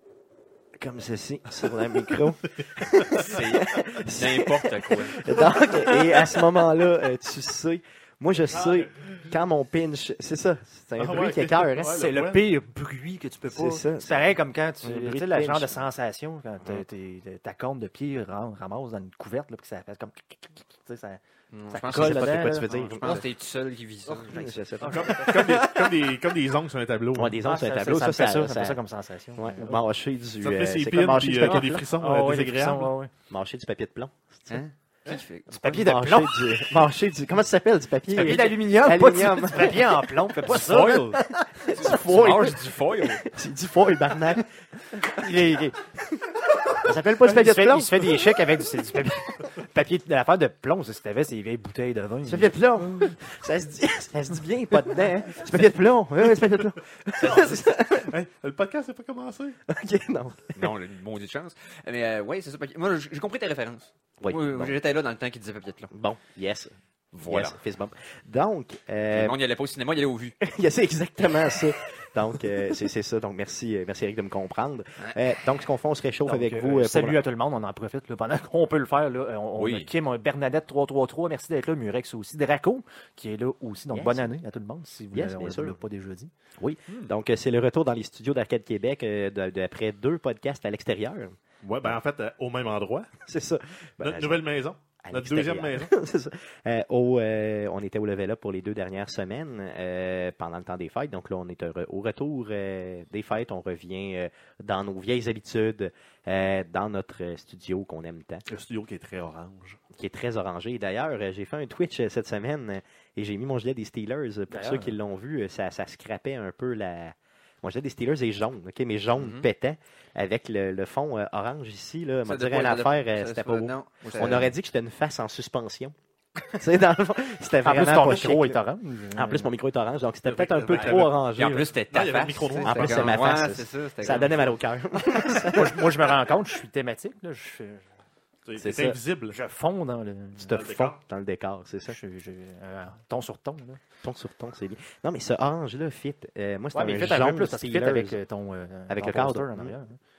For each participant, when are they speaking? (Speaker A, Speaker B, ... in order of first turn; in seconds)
Speaker A: 0.8-12.0, 13.5-15.8, 21.9-23.2, 24.2-25.1, 27.1-28.8, 29.4-31.9, 33.3-34.6, 35.7-41.0, 41.6-44.5, 45.1-45.4, 46.8-48.2, 52.2-58.1, 59.7-60.7, 64.2-64.8, 65.9-66.7, 67.2-69.4, 70.4-77.2, 83.9-84.3, 85.1-85.8, 86.6-92.0, 93.2-94.4, 95.0-108.4, 109.9-125.9, 126.5-128.6, 129.1-131.7, 132.6-136.0, 138.6-139.0, 140.4-142.0, 144.0-148.2, 148.9-149.7
Speaker B: 3.2-6.5, 21.5-26.0, 34.5-35.9, 41.7-43.2, 60.5-65.9, 67.1-67.6, 69.1-70.4, 79.5-79.9, 119.2-119.4, 122.2-124.5, 130.7-134.5
Speaker C: 8.6-9.2, 11.0-12.5, 24.8-27.4, 30.4-32.9, 40.5-41.2, 57.2-59.6, 91.6-93.1, 94.0-95.9, 108.5-109.8, 130.2-131.3, 131.9-133.5, 138.4-139.4, 140.5-141.0
Speaker D: 11.8-23.2, 24.8-25.3, 27.4-29.8, 31.4-33.1, 35.5-36.7, 38.0-41.6, 45.0-45.8, 47.2-53.1, 76.2-86.3, 114.5-115.0, 127.6-129.5, 135.2-137.8, 139.3-140.5, 141.9-143.8, 146.7-150.0